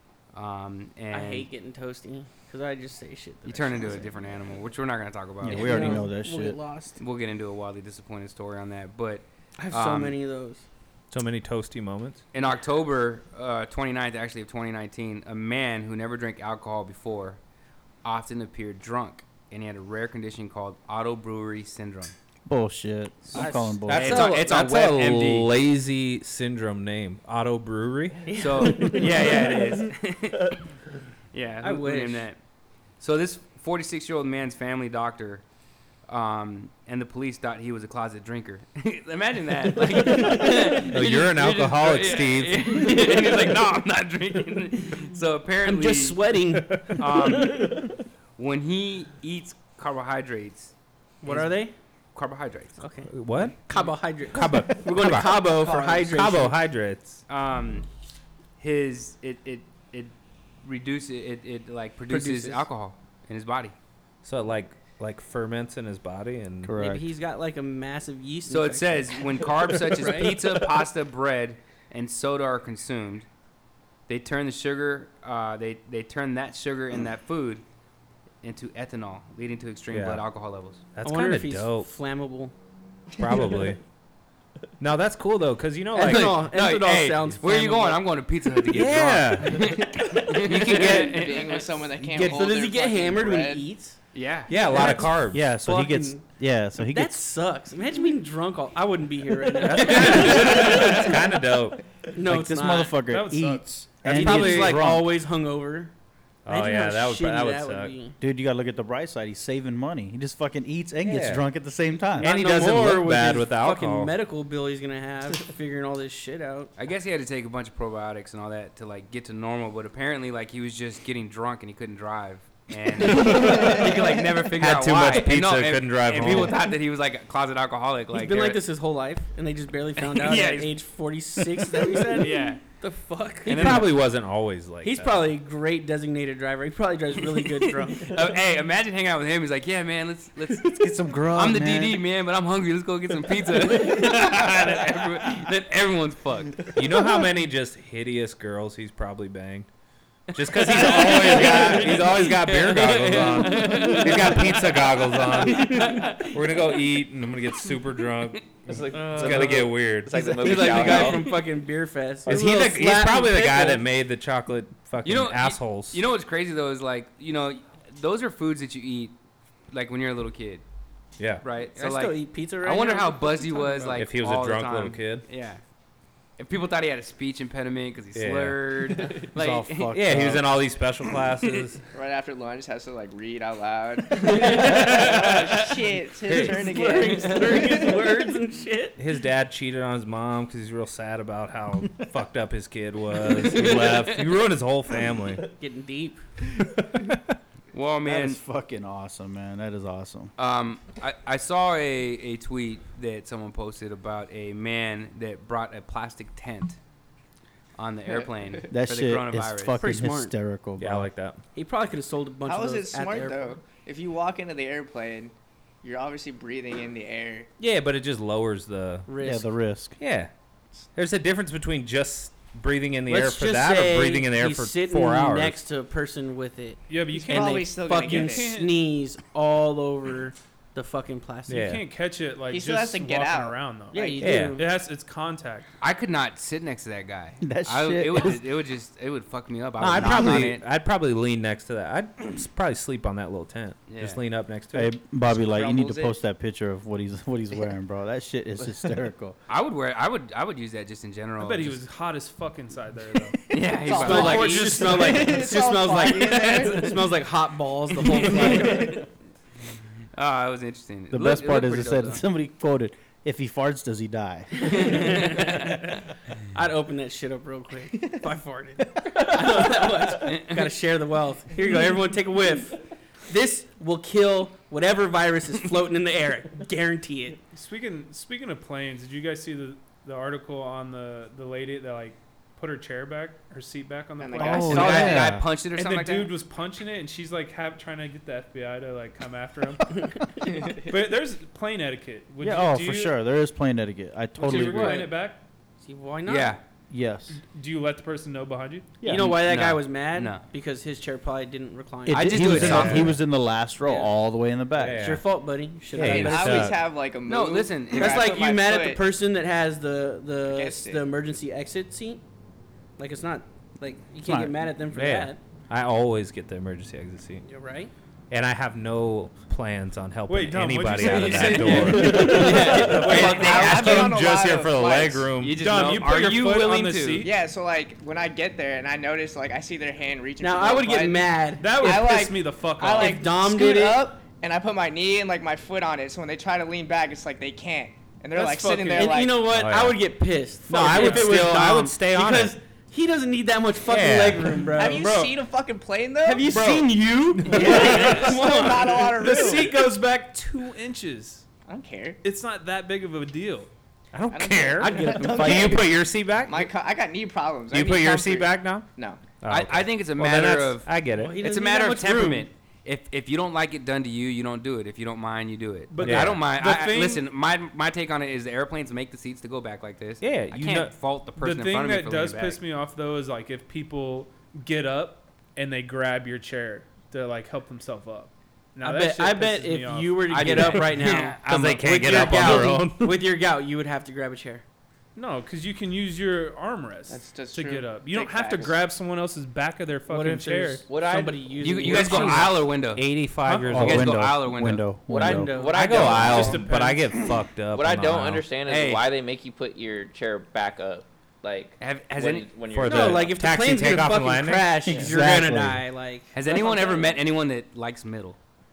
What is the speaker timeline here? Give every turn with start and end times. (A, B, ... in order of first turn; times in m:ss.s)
0:00.3-0:01.5 A
0:01.1-0:04.2 B
0:03.4-0:06.0 A
0:05.4-0:06.6 C
0:05.4-0:07.0 B
0:07.0-0:10.2 A
0:09.6-0:10.6 B
0:11.1-0:12.2 D
0:12.3-0:17.4 A
0:18.0-0:22.1 A
0:22.4-0:24.4 C
0:23.3-0:24.3 B
0:23.3-0:25.5 A
0:23.8-0:28.3 D
0:28.2-0:29.6 B
0:28.3-0:30.6 A
0:31.3-0:32.4 A
0:31.6-0:32.3 B
0:33.0-0:35.4 A
0:36.1-0:46.2 A
0:40.8-0:42.8 D
0:45.6-0:47.6 B
0:46.9-0:47.8 A
0:48.4-0:50.7 A
0:51.2-0:51.7 B
0:51.2-0:51.6 A
0:52.1-0:52.8 A
0:52.8-0:56.6 B
0:53.1-0:53.6 D
0:54.3-0:57.2 D
0:55.6-0:56.1 E
0:57.3-0:57.9 A
0:58.6-1:03.7 A
1:02.1-1:02.7 B
1:04.2-1:06.8 D
1:06.6-1:07.0 C
1:06.7-1:10.4 B
1:08.5-1:13.3 A
1:14.1-1:17.6 A
1:18.4-1:20.8 A
1:19.9-1:20.2 D
1:20.9-1:21.9 D
1:21.0-1:22.5 B
1:23.2-1:23.8 D
1:24.8-1:26.5 D
1:25.9-1:28.0 B
1:26.0-1:31.8 A
1:28.7-1:29.8 D
1:30.3-1:33.7 E
1:30.4-1:31.1 D
1:30.7-1:31.0 B
1:32.0-1:36.2 B
1:34.1-1:34.5 A
1:34.5-1:35.5 D
1:35.3-1:37.2 C
1:36.8-1:41.2 B
1:39.6-1:41.8 D
1:42.1-1:42.9 B
1:42.2-1:45.1 C
1:43.0-1:44.6 F
1:44.0-1:45.9 B
1:44.2-1:44.6 D
1:46.4-1:47.9 D
1:46.5-1:48.2 B
1:48.2-1:52.3 C
1:51.0-1:51.4 D
1:52.2-1:56.7 B
1:52.2-1:54.1 D
1:56.8-2:08.6 A
2:03.3-2:03.8 D
2:03.4-2:03.8 E
2:04.6-2:06.6 D
2:08.1-2:14.0 B
2:10.0-2:10.7 A
2:12.1-2:12.6 A
2:13.4-2:13.9 A
2:13.5-2:15.3 D
2:14.8-2:18.1 B
2:17.6-2:26.8 A
2:20.6-2:22.0 C
2:26.7-2:29.7 D
2:30.3-2:41.1 D
2:30.5-2:36.6 A
2:31.3-2:32.0 B
2:33.5-2:34.0 B
2:35.7-2:36.0 B
2:38.6-2:41.4 G
2:38.9-2:43.8 B
2:42.2-2:46.0 D
2:45.0-2:49.2 A
2:49.7-2:50.6 A
2:51.2-2:51.4 D
2:51.4-2:55.6 A
2:51.8-2:54.0 B
2:53.9-2:55.2 D
2:56.4-2:59.9 A
2:58.1-2:58.6 D
2:59.3-3:00.5 C
2:59.9-3:01.8 D
3:01.9-3:08.0 E
3:04.2-3:05.5 B
3:04.5-3:05.3 D
3:06.2-3:09.0 B
3:06.3-3:06.6 D
3:09.0-3:15.4 D
3:13.5-3:14.2 A
3:15.5-3:16.2 B
3:17.7-3:18.4 A
3:18.0-3:20.3 C
3:20.4-3:26.8 A
3:27.8-3:29.8 A
3:28.7-3:31.1 C
3:29.8-3:30.3 B
3:30.8-3:31.4 D
3:31.5-3:33.5 B
3:32.4-3:37.5 E
3:37.6-3:39.1 D
3:39.1-3:39.5 B
3:39.2-3:40.0 C
3:40.0-3:40.3 D
3:40.9-3:45.6 D
3:43.1-3:51.6 B
3:46.9-3:48.8 F
3:47.1-3:48.6 E
3:51.5-3:51.8 D
3:51.5-3:55.7 F
3:52.5-3:54.3 E
3:53.9-3:54.7 B
3:54.2-3:54.6 D
3:55.8-4:00.6 A
3:57.4-3:58.4 C
3:59.8-4:05.0 D
3:59.9-4:00.5 C
4:03.9-4:04.2 A
4:04.7-4:09.4 C
4:05.2-4:06.1 E
4:09.5-4:11.8 A
4:11.4-4:13.4 F
4:13.5-4:15.2 A
4:13.7-4:17.1 E
4:14.0-4:19.0 B
4:14.1-4:14.9 F
4:16.4-4:16.6 A
4:20.1-4:22.2 A
4:21.1-4:25.3 C
4:24.6-4:26.0 B
4:24.7-4:25.6 A
4:26.5-4:37.4 B
4:30.2-4:30.5 A
4:37.5-4:53.2 F
4:44.2-4:45.2 E
4:44.4-4:45.4 C
4:44.6-4:46.3 A
4:52.4-4:55.1 C
4:54.4-4:55.4 F
4:54.4-4:55.1 B
4:55.8-4:56.6 B
4:56.3-4:56.6 A
4:56.9-4:57.4 C
4:57.3-4:59.0 F
4:59.0-4:59.4 C
4:59.0-5:02.9 B
4:59.2-5:00.4 A
5:02.1-5:05.2 C
5:02.1-5:03.2 A
5:02.4-5:03.1 D
5:04.8-5:05.2 D
5:05.0-5:06.8 B
5:05.9-5:06.8 D
5:06.0-5:09.0 E
5:07.2-5:08.3 A
5:08.0-5:12.2 B
5:10.5-5:11.0 E
5:13.0-5:15.4 B
5:14.2-5:14.5 C
5:14.9-5:17.4 D
5:17.4-5:17.9 B
5:18.3-5:25.8 D
5:20.3-5:24.1 F
5:21.0-5:24.0 A
5:22.0-5:23.1 B
5:23.0-5:25.3 E
5:25.4-5:27.3 A
5:25.6-5:27.3 F
5:27.2-5:39.4 E
5:30.4-5:32.2 B
5:31.6-5:33.2 F
5:33.0-5:34.0 B
5:38.4-5:39.1 F
5:38.9-5:45.2 B
5:39.5-5:40.0 D
5:40.7-5:42.6 D
5:43.8-5:44.7 D
5:44.8-5:46.9 E
5:44.9-5:45.3 F
5:46.2-5:49.6 B
5:47.4-5:49.8 E
5:47.5-5:48.4 F
5:49.1-5:51.4 F
5:51.7-5:52.2 E
5:52.2-5:53.7 F
5:54.1-5:56.7 D
5:54.3-5:59.2 E
5:54.8-5:55.9 B
5:57.7-5:58.9 D
5:59.4-6:01.4 D
5:59.4-6:12.6 A
6:01.1-6:02.5 B
6:05.9-6:07.2 F
6:06.0-6:06.4 D
6:10.2-6:10.9 D
6:11.4-6:20.6 F
6:18.8-6:24.6 B
6:20.3-6:22.7 A
6:20.4-6:23.2 D
6:25.1-6:30.8 F
6:27.1-6:28.8 E
6:30.1-6:32.6 B
6:30.9-6:32.0 G
6:31.6-6:33.0 A
6:31.8-6:34.2 D
6:33.4-6:33.8 F
6:33.7-6:35.6 C
6:33.8-6:34.9 A
6:35.1-6:36.6 G
6:35.2-6:36.4 B
6:35.7-6:38.4 D
6:35.8-6:37.2 F
6:37.7-6:43.3 G
6:38.6-6:39.0 A
6:41.8-6:42.5 A
6:42.7-6:45.4 D
6:42.8-6:46.3 B
6:44.9-6:45.8 C
6:46.3-6:48.4 A
6:46.4-6:47.2 E